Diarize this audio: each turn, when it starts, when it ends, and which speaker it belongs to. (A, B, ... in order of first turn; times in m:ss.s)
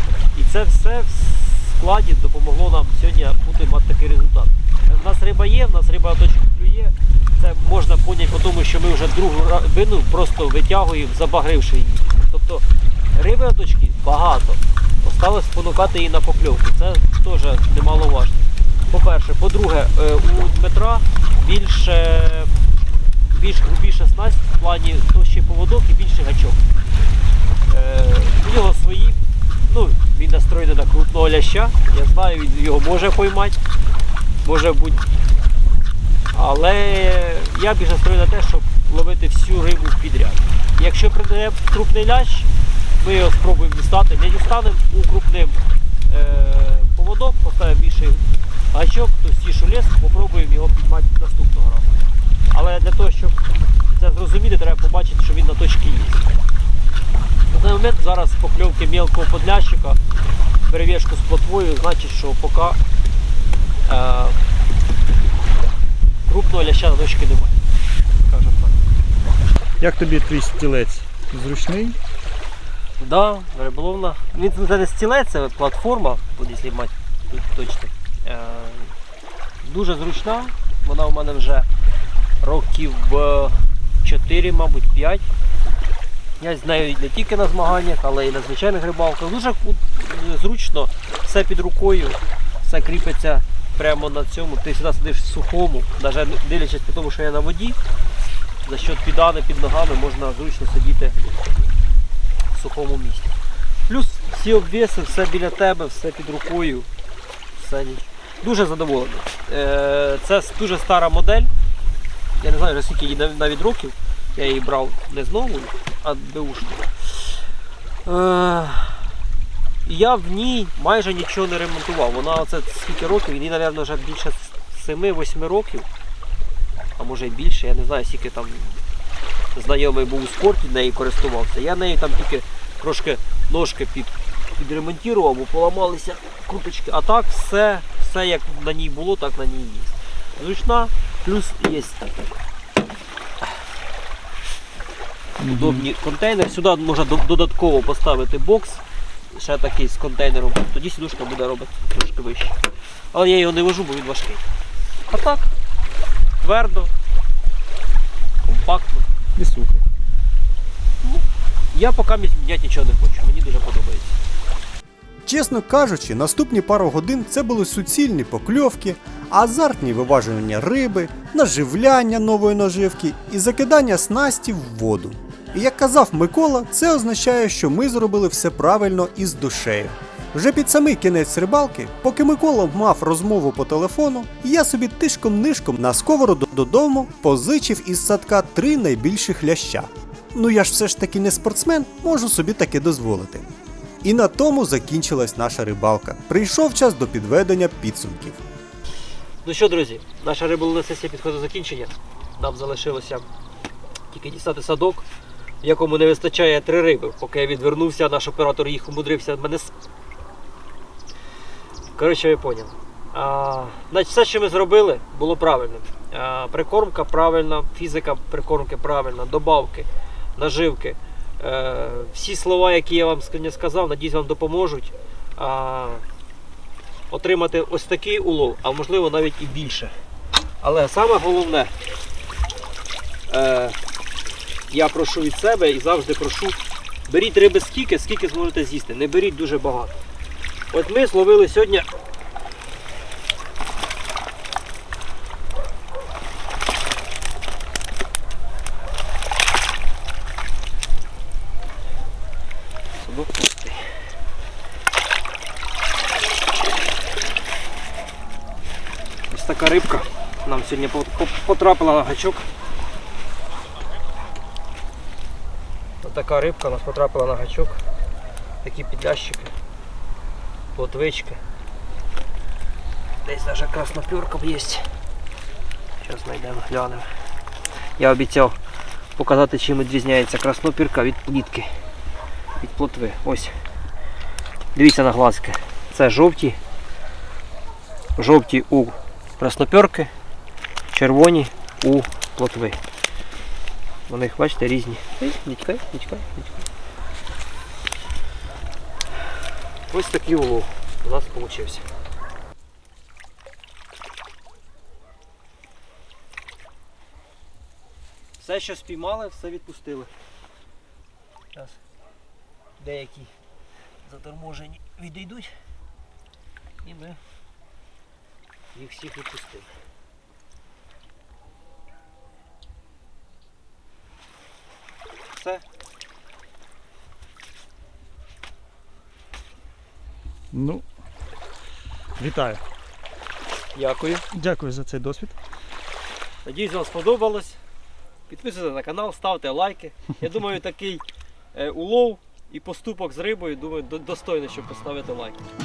0:00.3-0:12.6 A
0:13.1-0:22.5 A
0:23.3-0:26.6 A
0:27.7-0:33.6 A
0:34.4-0:35.0 A
0:36.3-0:42.5 A
0:43.0-0:45.6 A
0:46.1-0:51.9 A
0:52.5-0:53.4 A
0:54.0-0:56.3 A
0:57.5-1:00.0 A
1:00.7-1:02.8 A
1:03.9-1:04.4 A
1:06.3-1:07.6 A
1:08.2-1:08.8 A
1:09.8-1:12.0 B
1:13.0-1:18.9 A
1:19.6-1:21.7 A
1:22.4-1:25.2 A
1:26.4-1:37.8 A
1:38.6-1:41.2 A
1:42.5-1:43.3 A
1:43.9-1:46.9 A
1:47.5-1:51.5 A
1:52.4-1:57.4 A
1:58.0-1:59.0 A
1:59.8-2:05.9 A
2:07.0-2:08.8 A
2:09.5-2:22.0 A
2:25.4-2:25.9 B
2:25.5-2:32.6 A
2:33.1-2:34.4 A
2:35.1-2:35.5 A
2:36.4-2:36.9 A
2:38.4-2:39.0 A
2:39.4-2:39.8 B
2:41.0-2:44.2 A
2:45.2-3:13.5 C
3:14.0-3:18.4 C
3:19.4-3:23.3 A
3:24.1-3:25.0 A
3:25.6-3:29.7 A
3:32.0-3:46.0 A
3:47.1-3:49.9 A
3:50.6-3:51.7 A
3:53.3-3:53.8 A
3:54.7-3:56.6 A
3:57.1-4:00.0 A
4:00.7-4:01.9 A
4:13.0-4:13.8 A
4:19.3-4:22.4 A
4:26.0-4:27.8 A
4:28.6-4:29.5 A
4:30.7-4:31.4 A
4:33.2-4:34.9 A
4:36.0-4:37.1 A
4:38.0-4:38.6 A
4:39.2-4:41.7 A
4:42.6-4:43.5 A
4:44.7-4:46.6 A
4:48.2-4:50.1 A
4:50.9-4:52.8 A
4:54.1-4:56.6 A
4:59.9-5:01.8 A
5:08.4-5:10.1 A
5:12.8-5:13.3 A
5:14.0-5:15.6 A
5:16.8-5:17.2 A
5:18.7-5:19.7 A
5:25.3-5:25.6 A
5:30.5-5:30.8 B
5:32.2-5:32.6 B
5:33.7-5:34.2 A
5:34.3-5:35.4 B
5:36.4-5:37.6 A
5:38.3-5:45.4 A